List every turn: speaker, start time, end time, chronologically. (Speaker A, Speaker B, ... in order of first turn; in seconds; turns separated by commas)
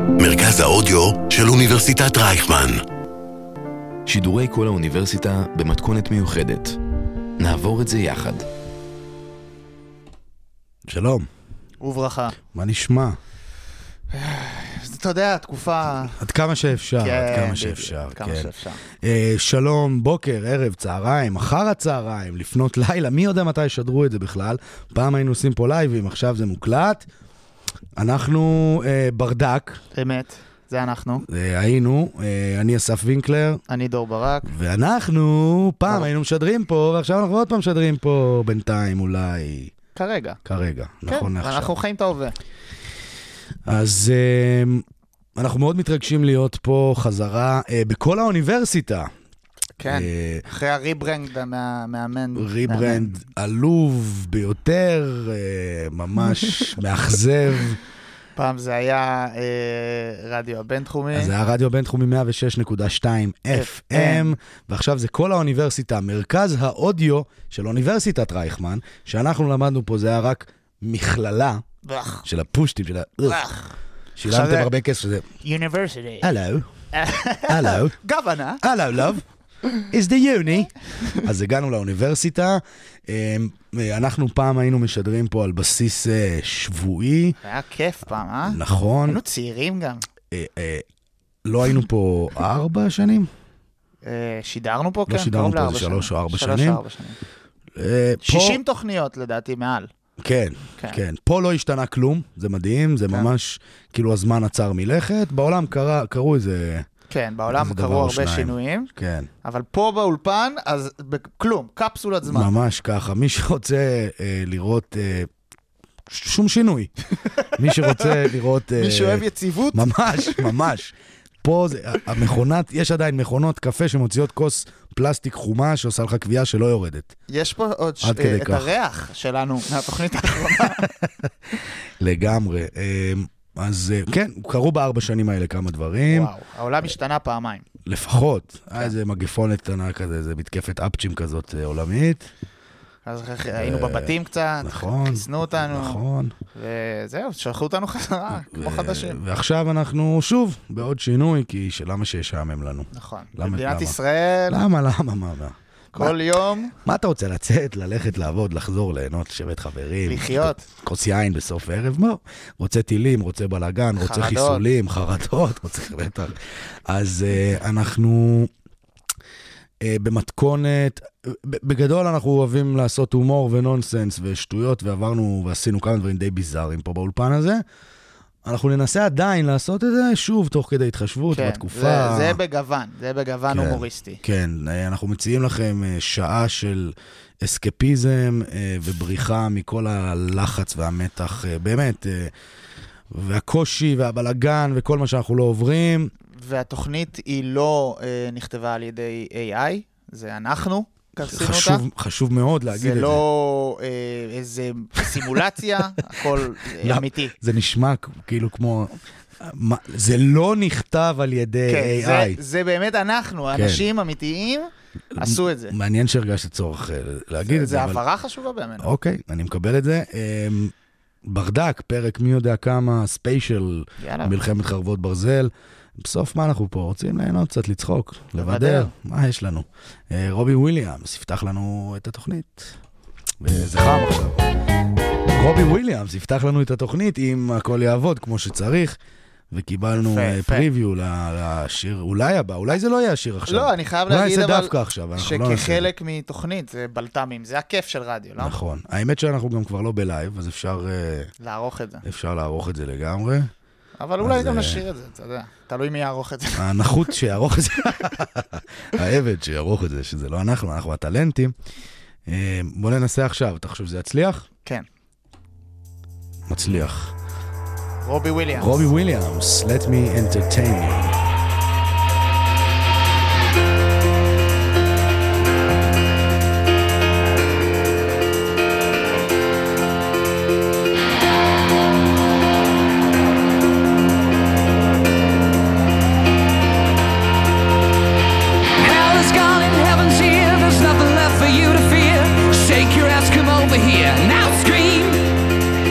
Speaker A: 0.2-2.8, Speaker B: 4.0-6.8, Speaker B: 7.4-8.4, Speaker C: 10.8-11.3, Speaker D: 11.8-12.3, Speaker C: 12.5-13.2, Speaker D: 14.1-16.1, Speaker C: 16.2-27.1, Speaker D: 17.0-18.8, Speaker C: 27.9-29.8, Speaker D: 29.9-31.2, Speaker C: 31.2-33.6, Speaker D: 33.7-34.5, Speaker C: 34.4-39.7, Speaker D: 40.0-40.4, Speaker C: 40.4-41.7, Speaker D: 41.1-42.3, Speaker C: 43.6-44.8, Speaker C: 45.4-49.1, Speaker D: 49.8-53.2, Speaker C: 49.8-50.5, Speaker C: 52.3-57.8, Speaker D: 58.4-61.3, Speaker C: 61.1-71.6, Speaker D: 63.5-64.3, Speaker D: 71.8-72.2, Speaker C: 72.2-73.4, Speaker D: 73.2-73.7, Speaker C: 74.2-75.2, Speaker D: 74.3-74.7, Speaker D: 75.4-76.3, Speaker C: 76.2-76.7, Speaker D: 76.9-78.6, Speaker C: 77.5-78.0, Speaker C: 78.6-79.2, Speaker C: 79.9-87.4, Speaker D: 87.4-90.0, Speaker C: 88.5-89.2, Speaker C: 90.3-90.8, Speaker C: 91.4-93.3, Speaker D: 94.0-97.2, Speaker C: 95.1-96.8, Speaker C: 97.8-98.6, Speaker D: 98.2-99.9, Speaker C: 100.2-106.9, Speaker D: 107.1-108.9, Speaker C: 107.5-109.3, Speaker D: 109.4-112.5, Speaker C: 112.2-115.3, Speaker C: 116.1-127.1, Speaker D: 118.8-120.5, Speaker D: 127.3-130.9, Speaker C: 128.0-128.7, Speaker C: 130.6-136.3, Speaker D: 136.1-137.7, Speaker C: 137.8-142.3, Speaker D: 143.1-146.0, Speaker C: 143.6-146.3, Speaker D: 146.5-149.2, Speaker C: 148.5-154.0, Speaker D: 152.9-154.6, Speaker C: 154.5-156.2, Speaker D: 155.9-156.7, Speaker C: 156.8-168.5, Speaker D: 160.1-160.6, Speaker D: 164.0-164.6, Speaker C: 169.8-177.6, Speaker C: 178.4-182.4, Speaker D: 181.3-184.2, Speaker C: 183.5-192.3, Speaker C: 193.1-196.1, Speaker D: 196.4-201.8, Speaker C: 201.2-203.2, Speaker D: 202.7-207.3, Speaker C: 206.2-212.4, Speaker D: 211.7-215.7, Speaker C: 213.5-213.8, Speaker C: 215.1-218.0, Speaker D: 217.4-218.9, Speaker C: 218.8-220.7, Speaker C: 221.2-232.8, Speaker D: 224.0-224.4, Speaker D: 228.3-228.9, Speaker C: 233.4-234.4, Speaker C: 235.3-239.0, Speaker C: 239.5-245.9, Speaker D: 239.9-240.7, Speaker D: 243.5-248.6, Speaker C: 248.4-251.3, Speaker D: 251.4-252.0, Speaker C: 252.0-253.5, Speaker D: 254.0-257.1, Speaker C: 254.2-254.8, Speaker C: 256.6-261.5, Speaker C: 262.2-264.4, Speaker C: 266.5-267.1, Speaker D: 268.0-268.9, Speaker C: 268.6-271.2, Speaker E: 288.8-295.2